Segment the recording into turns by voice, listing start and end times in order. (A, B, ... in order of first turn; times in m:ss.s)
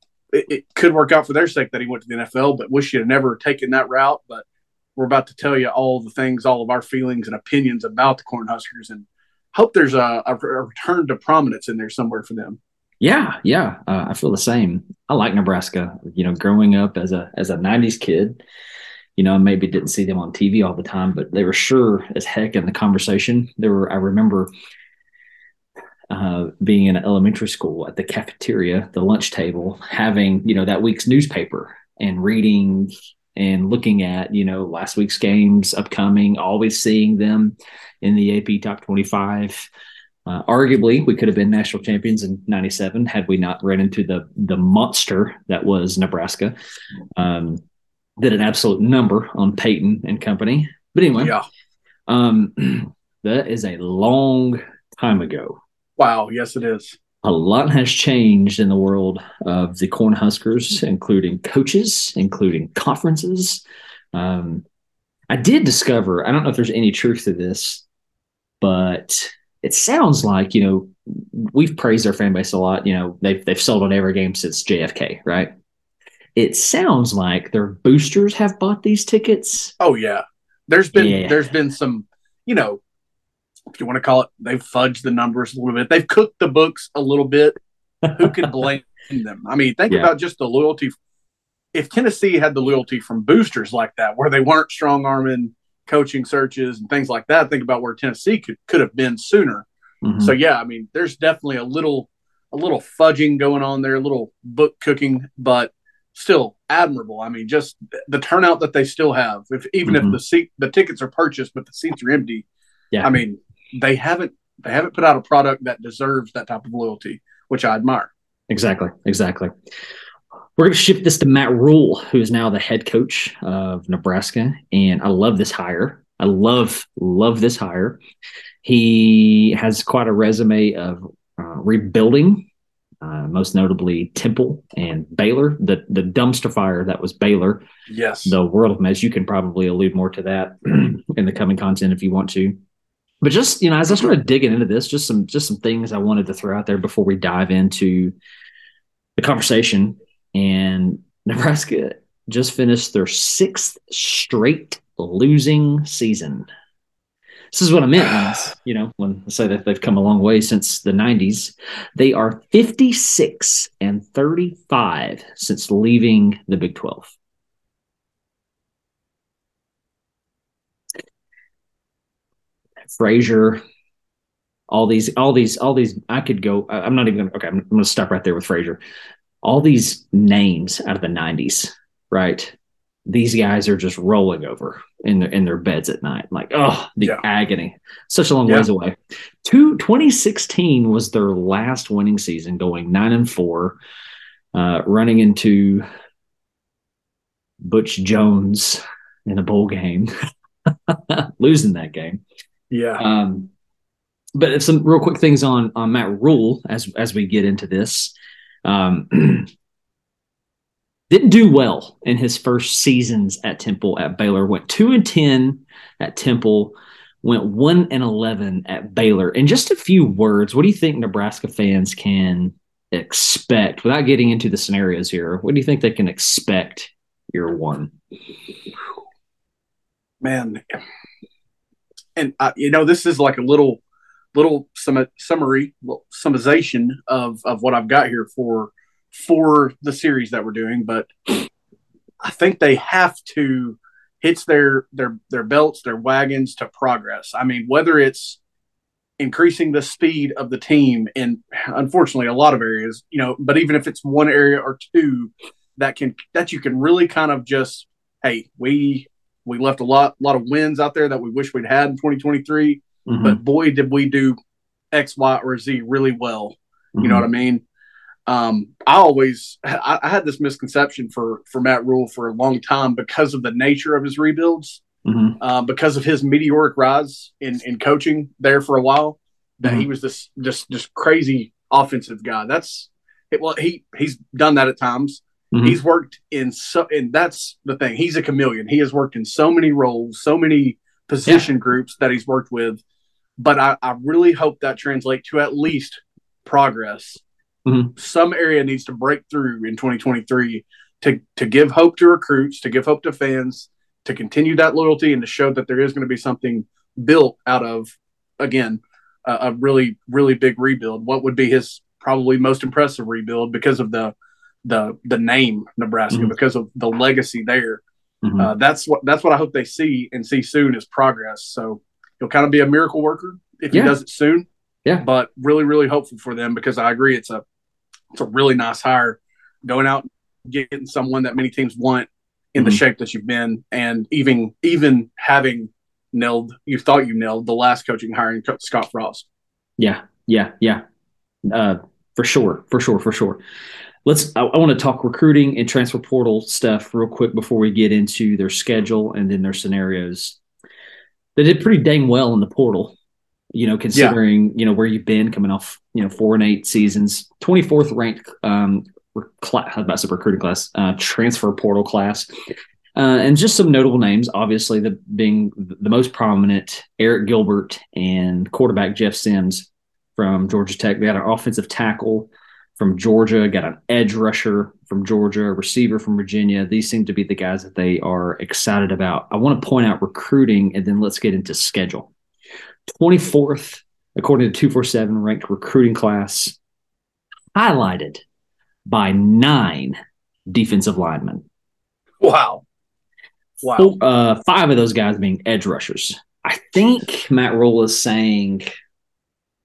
0:00.3-0:04.4 A
0:05.0-0:12.6 A
0:13.0-0:18.4 B
0:19.2-0:24.5 B
0:26.1-0:39.7 B
0:40.2-0:46.5 B
0:47.2-0:47.6 B
0:48.2-0:51.3 B
0:51.2-0:51.4 A
0:52.1-0:55.6 B
0:56.0-0:57.0 A
0:57.2-1:03.6 B
1:04.1-1:04.6 B
1:05.3-1:07.8 B
1:08.6-1:15.5 B
1:16.4-1:19.7 B
1:19.8-1:22.8 A
1:21.0-1:21.4 B
1:23.8-1:27.5 A
1:28.1-1:30.9 A
1:31.7-1:39.6 A
1:40.0-1:40.3 B
1:40.2-1:52.4 A
1:49.8-1:50.2 B
1:53.0-1:58.1 A
1:58.5-1:59.5 B
2:00.6-2:08.0 B
2:08.6-2:12.5 B
2:13.0-2:17.6 B
2:17.9-2:18.3 A
2:18.2-2:22.6 B
2:23.2-2:28.1 B
2:29.2-2:36.5 B
2:37.5-2:47.1 B
2:52.9-2:53.6 B
2:54.7-2:58.8 B
2:59.4-3:02.5 B
3:03.0-3:13.8 B
3:14.5-3:15.8 B
3:17.6-3:20.1 B
3:20.9-3:22.2 B
3:22.7-3:23.0 A
3:23.0-3:23.5 B
3:24.4-3:28.1 B
3:28.6-3:29.5 B
3:31.1-3:47.9 B
3:50.2-3:50.6 A
3:52.2-3:53.8 A
3:54.3-4:01.1 A
4:02.2-4:08.4 A
4:09.2-4:24.4 A
4:23.1-4:23.4 B
4:24.9-4:27.6 A
4:27.0-4:27.2 B
4:28.3-4:34.8 A
4:35.0-4:35.4 B
4:35.4-4:52.8 A
4:45.5-4:45.8 B
4:53.4-4:57.2 A
4:57.6-4:57.9 B
4:58.0-5:17.8 A
5:18.2-5:18.5 B
5:18.4-5:24.5 A
5:23.7-5:24.0 B
5:25.0-5:27.4 A
5:28.1-5:39.2 A
5:39.8-5:40.8 B
5:41.4-5:43.4 B
5:44.0-5:50.4 B
5:51.4-5:52.9 B
5:53.5-6:02.3 B
6:02.9-6:22.1 B
6:22.9-6:26.6 B
6:27.5-6:28.2 B
6:28.8-6:30.0 B
6:30.5-6:31.4 B
6:32.2-6:32.6 A
6:33.6-6:33.9 A
6:33.7-6:38.7 B